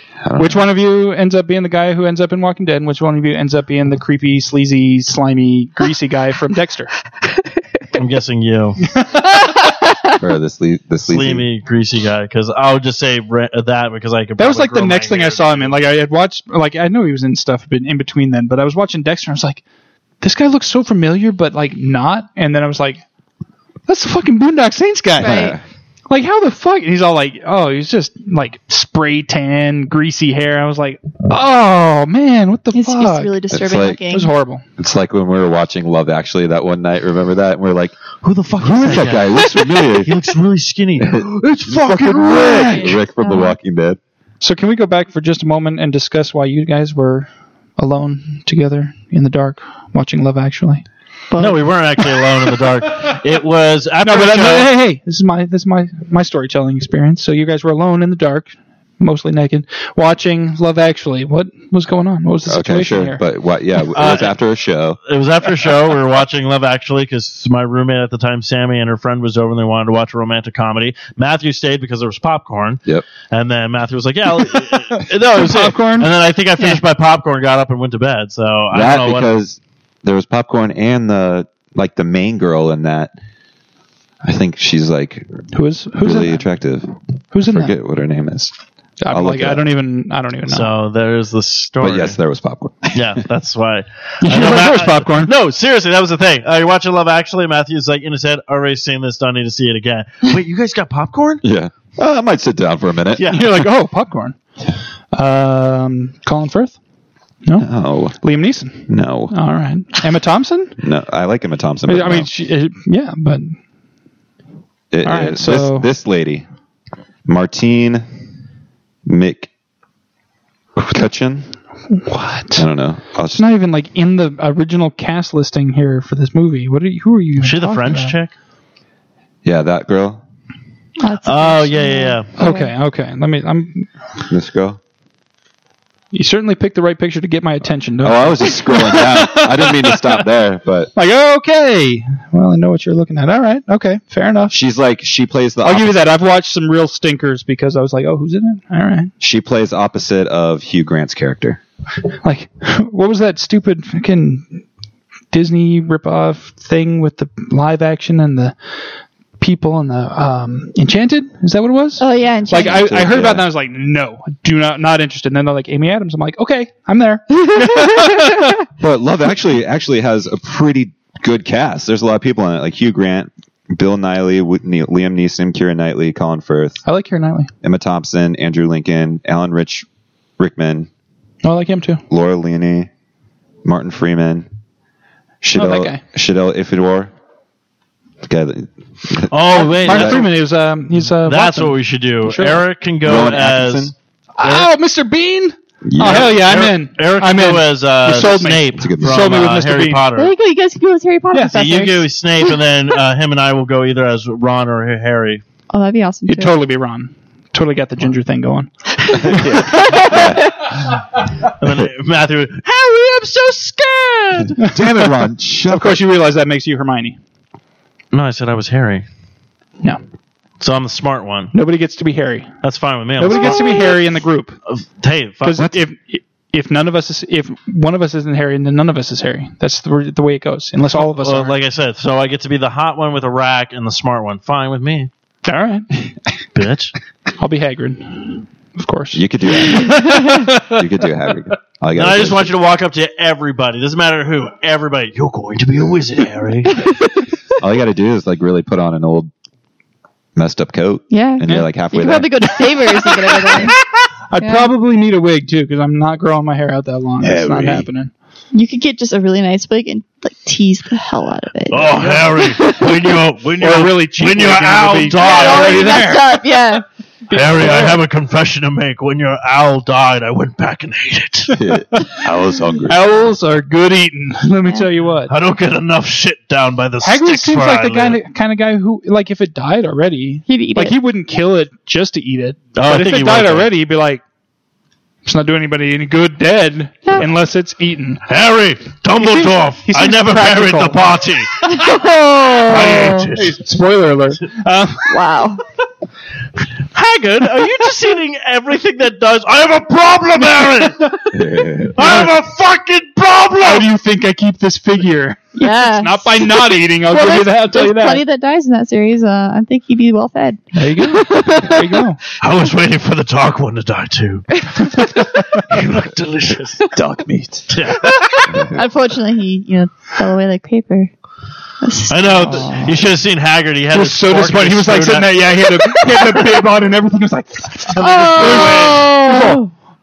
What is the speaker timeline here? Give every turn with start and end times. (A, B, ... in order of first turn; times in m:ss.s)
0:00.2-0:00.7 A
0:00.4-0:07.0 B
0:07.9-0:08.8 C
0:09.0-0:09.5 B
0:10.2-0:11.5 A
0:11.1-0:15.7 C
0:14.4-0:19.6 B
0:20.2-0:23.0 B
0:23.9-0:25.6 B
0:25.2-0:25.6 A
0:25.2-0:25.6 D
0:26.1-0:33.3 B
0:32.7-0:34.3 D
0:33.5-0:34.0 A
0:34.1-0:34.6 B
0:34.8-0:37.9 A
0:38.2-0:42.8 C
0:38.6-0:40.1 A
0:41.0-0:44.0 A
0:42.4-0:42.7 B
0:42.7-0:43.6 D
0:44.4-0:50.8 B
0:51.3-0:51.6 D
0:51.4-0:54.7 C
0:54.0-1:03.2 B
1:02.4-1:05.0 A
1:03.9-1:04.3 C
1:04.0-1:04.2 B
1:05.1-1:19.3 C
1:14.4-1:14.8 B
1:15.3-1:16.8 B
1:18.7-1:23.1 A
1:24.2-1:25.4 A
1:25.5-1:26.5 B
1:26.0-1:28.5 A
1:27.3-1:27.7 B
1:29.0-1:30.7 B
1:29.1-1:29.8 A
1:30.4-1:32.2 C
1:31.8-1:33.2 A
1:32.9-1:41.4 C
1:34.2-1:35.3 B
1:41.4-1:43.3 A
1:43.1-1:43.5 C
1:43.2-1:44.4 B
1:45.1-1:46.8 B
1:47.4-1:50.8 B
1:47.6-1:48.2 A
1:48.9-1:49.4 A
1:50.8-1:52.3 A
1:51.8-1:53.6 B
1:54.9-1:56.4 A
1:55.0-1:55.9 B
1:57.2-1:58.0 A
1:59.0-1:59.5 A
2:00.9-2:01.5 A
2:01.9-2:02.7 B
2:02.6-2:03.4 A
2:03.3-2:08.2 B
2:07.4-2:08.3 C
2:09.4-2:10.2 A
2:11.0-2:12.7 D
2:11.2-2:12.3 C
2:12.4-2:13.9 B
2:14.2-2:14.8 A
2:16.1-2:20.2 B
2:18.0-2:20.9 A
2:20.9-2:24.6 B
2:24.5-2:26.1 A
2:25.6-2:29.1 B
2:29.2-2:31.6 A
2:32.2-2:34.6 B
2:35.3-2:38.6 B
2:39.4-2:48.6 B
2:42.0-2:42.9 D
2:42.5-2:43.5 A
2:47.5-2:48.1 D
2:48.8-2:56.8 A
2:56.8-2:57.5 B
2:57.6-2:59.8 A
3:00.4-3:00.9 A
3:01.4-3:02.0 B
3:02.1-3:02.9 A
3:03.6-3:04.5 A
3:05.4-3:07.1 A
3:05.5-3:06.0 B
3:08.2-3:10.2 A
3:09.3-3:10.4 C
3:09.5-3:12.6 B
3:11.0-3:14.7 C
3:13.0-3:13.9 A
3:14.4-3:20.0 B
3:15.8-3:16.5 A
3:16.0-3:20.3 C
3:18.8-3:19.5 A
3:20.2-3:22.0 D
3:21.3-3:22.0 B
3:21.5-3:25.4 C
3:25.7-3:26.6 D
3:26.3-3:28.7 B
3:29.1-3:30.7 A
3:29.3-3:30.2 B
3:29.7-3:30.3 D
3:31.6-3:34.5 C
3:34.6-3:35.1 B
3:34.6-3:36.0 A
3:35.7-3:37.2 B
3:38.1-3:39.0 C
3:40.6-3:41.5 C
3:41.5-3:42.5 B
3:42.6-3:43.9 C
3:43.2-3:44.6 B
3:44.7-3:45.7 C
3:45.4-3:51.6 B
3:50.9-3:55.1 C
3:55.4-3:56.1 B
3:56.5-3:56.9 C
3:57.4-4:00.8 B
3:59.1-4:00.1 A
4:00.7-4:02.6 A
4:01.9-4:06.8 C
4:07.6-4:09.3 A
4:10.3-4:12.5 A
4:11.1-4:13.8 D
4:13.0-4:18.1 B
4:14.4-4:14.7 D
4:17.2-4:17.9 A
4:18.5-4:22.0 D
4:21.7-4:26.1 C
4:21.8-4:22.9 B
4:23.6-4:26.4 B
4:25.2-4:26.8 D
4:27.3-4:31.5 C
4:27.3-4:28.0 B
4:31.5-4:33.2 A
4:32.8-4:35.3 B
4:35.3-4:38.2 C
4:37.0-4:44.2 B
4:40.5-4:41.0 D
4:42.8-4:43.7 C
4:45.2-4:48.2 B
4:48.3-4:51.6 C
4:49.2-4:51.1 B
4:51.6-4:55.1 B
4:51.7-4:52.5 D
4:52.7-4:53.6 C
4:55.1-4:55.6 D
4:56.9-5:01.1 C
5:00.8-5:01.1 B
5:01.3-5:02.3 A
5:02.0-5:03.9 C
5:02.0-5:02.3 B
5:03.6-5:08.2 B
5:05.6-5:11.9 D
5:10.8-5:12.2 B
5:12.4-5:15.1 C
5:15.7-5:16.9 C
5:16.9-5:17.7 A
5:17.7-5:18.2 C
5:18.3-5:21.1 D
5:18.5-5:18.8 A
5:21.8-5:22.7 D
5:22.1-5:25.4 C
5:22.4-5:23.0 B
5:23.9-5:29.6 B
5:28.0-5:29.7 D
5:28.4-5:28.9 C